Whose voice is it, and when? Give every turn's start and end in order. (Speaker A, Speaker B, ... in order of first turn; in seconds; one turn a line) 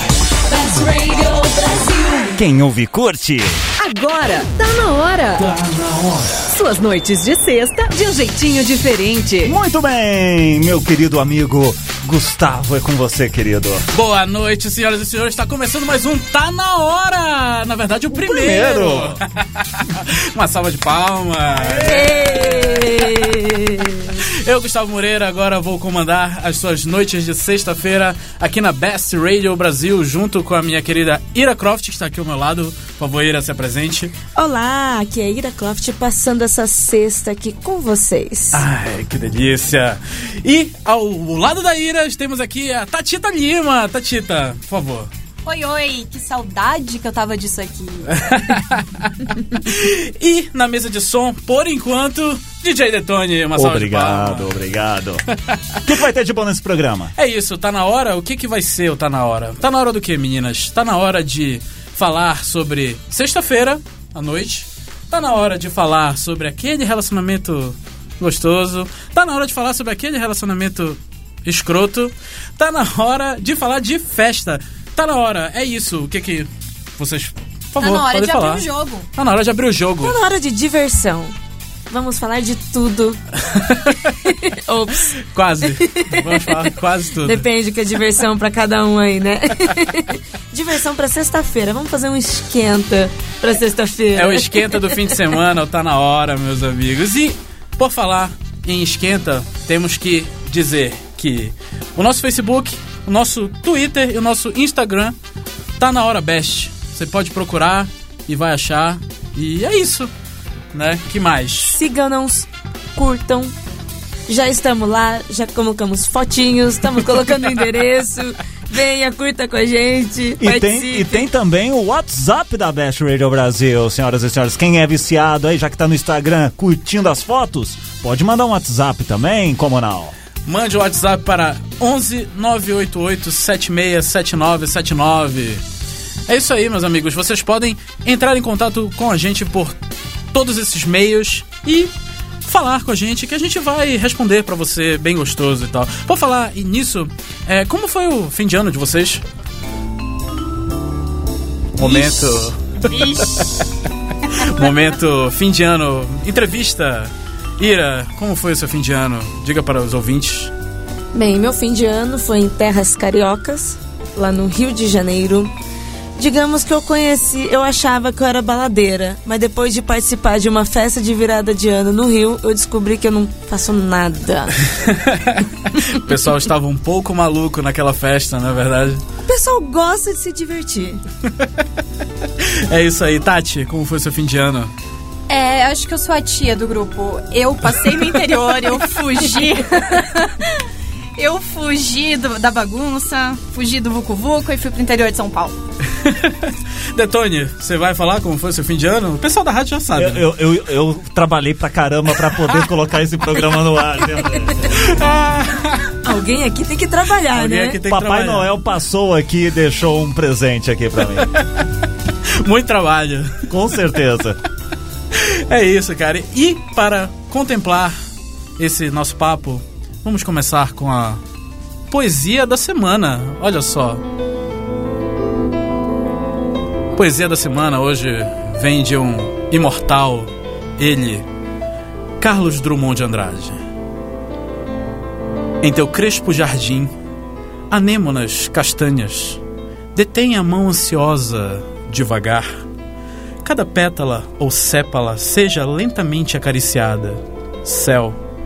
Speaker A: 0.5-2.4
Speaker B: 2.3-3.6
Speaker A: 3.8-5.5
Speaker C: 5.5-6.3
Speaker A: 6.4-9.6
Speaker B: 9.4-13.9
Speaker C: 13.9-22.7
Speaker B: 18.1-19.2
Speaker D: 21.8-24.1
Speaker C: 24.2-34.1
Speaker D: 34.4-38.6
Speaker C: 38.5-45.1
Speaker E: 45.5-48.1
Speaker C: 48.1-54.5
Speaker B: 53.5-55.2
Speaker C: 55.5-55.8
Speaker B: 55.8-57.1
Speaker C: 57.2-80.2
Speaker E: 77.8-79.1
Speaker D: 80.0-81.3
Speaker D: 81.9-83.2
Speaker C: 83.5-84.2
Speaker D: 84.3-85.2
Speaker C: 85.2-87.5
Speaker D: 85.8-86.7
Speaker D: 87.2-95.1
Speaker C: 94.2-105.2
Speaker C: 105.8-110.1
Speaker C: 110.7-111.8
Speaker D: 111.7-113.5
Speaker D: 114.3-121.2
Speaker B: 120.4-130.1
Speaker C: 130.5-135.6
Speaker C: 136.3-139.8
Speaker C: 140.3-141.9
Speaker C: 142.4-149.2
Speaker C: 151.8-153.5
Speaker E: 151.9-153.2
Speaker C: 154.3-160.5
Speaker D: 161.1-165.5
Speaker D: 166.2-174.7
Speaker C: 174.8-179.0
Speaker D: 179.3-181.0
Speaker C: 182.4-184.7
Speaker E: 185.3-190.6
Speaker E: 191.2-195.6
Speaker C: 195.9-200.3
Speaker B: 199.9-204.9
Speaker C: 204.8-205.8
Speaker D: 206.0-207.8
Speaker C: 207.3-208.5
Speaker B: 207.8-211.3
Speaker C: 212.3-213.5
Speaker B: 213.5-214.4
Speaker C: 215.1-218.0
Speaker C: 218.6-221.2
Speaker C: 221.9-224.0
Speaker C: 227.0-231.3
Speaker C: 232.2-233.6
Speaker C: 235.6-236.9
Speaker C: 237.7-239.4
Speaker C: 239.9-242.5
Speaker C: 243.4-248.2